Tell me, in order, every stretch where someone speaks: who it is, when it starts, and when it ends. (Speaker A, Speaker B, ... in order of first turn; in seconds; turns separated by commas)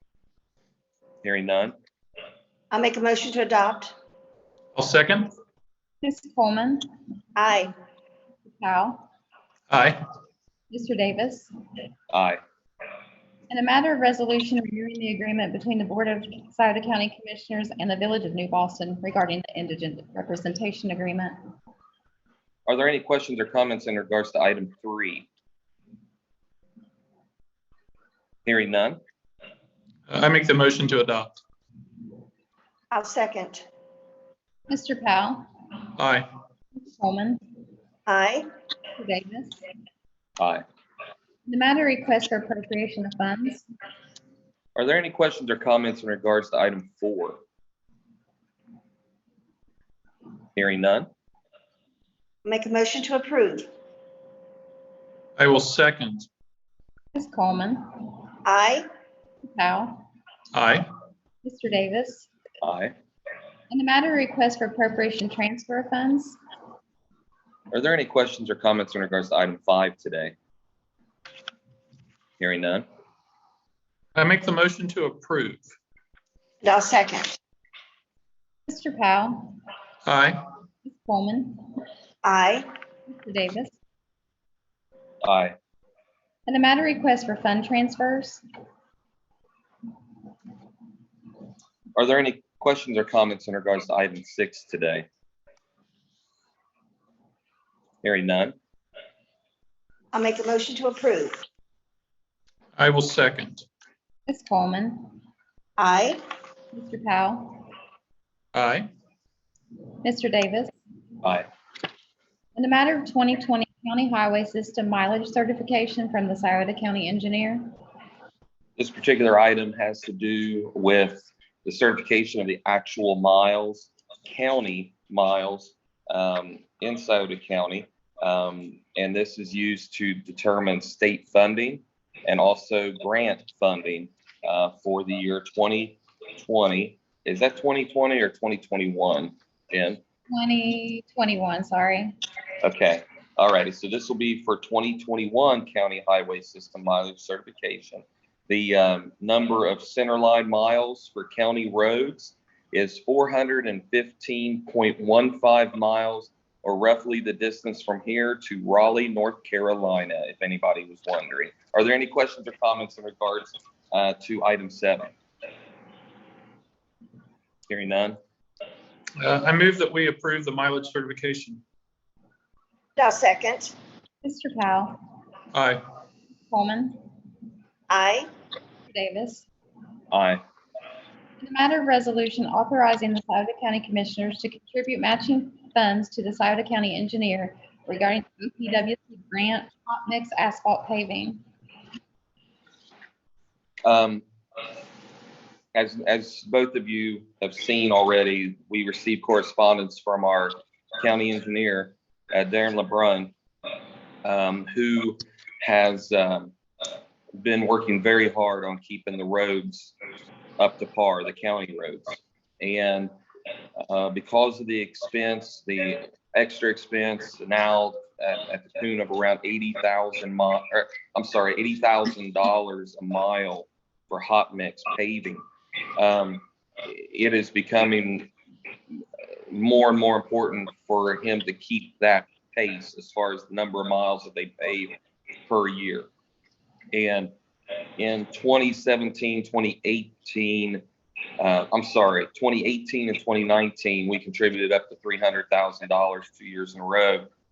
Speaker A: 1.2-1.7, Speaker B: 2.7-4.0, Speaker C: 4.8-5.3, Speaker D: 6.0-6.9, Speaker B: 7.4-7.7, Speaker D: 8.5-9.1, Speaker C: 9.7-10.0, Speaker D: 10.7-11.5, Speaker A: 12.1-12.4, Speaker D: 13.5-21.4, Speaker A: 22.7-25.3, Speaker A: 28.5-29.0, Speaker C: 30.1-31.3, Speaker B: 32.9-33.6, Speaker D: 34.7-35.5, Speaker C: 36.0-36.3, Speaker D: 36.7-37.4, Speaker B: 38.1-38.5, Speaker D: 39.0-39.6, Speaker A: 40.4-40.6, Speaker D: 41.5-43.7, Speaker A: 44.8-47.4, Speaker A: 50.6-51.1, Speaker B: 52.5-53.7, Speaker C: 55.4-56.3, Speaker D: 57.1-58.3, Speaker B: 58.5-58.9, Speaker D: 59.4-60.1, Speaker C: 60.5-60.9, Speaker D: 61.4-62.3, Speaker A: 62.6-62.9, Speaker D: 63.7-66.4, Speaker A: 67.7-70.4, Speaker A: 72.4-72.8, Speaker C: 74.2-75.7, Speaker B: 76.6-77.3, Speaker D: 78.7-79.6, Speaker C: 80.1-80.4, Speaker D: 80.8-81.8, Speaker B: 82.2-82.7, Speaker D: 83.1-83.8, Speaker A: 85.2-85.5, Speaker D: 86.5-88.4, Speaker A: 92.0-95.1, Speaker A: 98.0-98.5, Speaker B: 100.1-101.4, Speaker C: 102.8-103.7, Speaker D: 104.3-105.2, Speaker B: 105.8-106.2, Speaker D: 106.7-107.7, Speaker C: 108.5-108.9, Speaker D: 110.0-110.7, Speaker D: 112.5-117.7, Speaker A: 118.8-140.0, Speaker D: 140.3-142.2, Speaker A: 142.6-165.1, Speaker A: 167.7-168.2, Speaker C: 169.2-171.6, Speaker B: 173.0-173.8, Speaker D: 174.2-175.0, Speaker C: 175.5-175.8, Speaker D: 176.5-177.0, Speaker B: 177.9-178.3, Speaker D: 178.9-179.5, Speaker A: 180.1-180.4, Speaker D: 181.4-191.4, Speaker A: 193.8-194.2, Speaker A: 195.7-203.3, Speaker A: 204.2-206.5, Speaker A: 207.3-209.9, Speaker A: 210.6-213.1, Speaker A: 213.8-225.4, Speaker A: 226.0-228.3, Speaker A: 229.5-234.9, Speaker A: 235.5-236.1, Speaker A: 236.9-237.3, Speaker A: 238.0-240.8, Speaker A: 241.4-247.3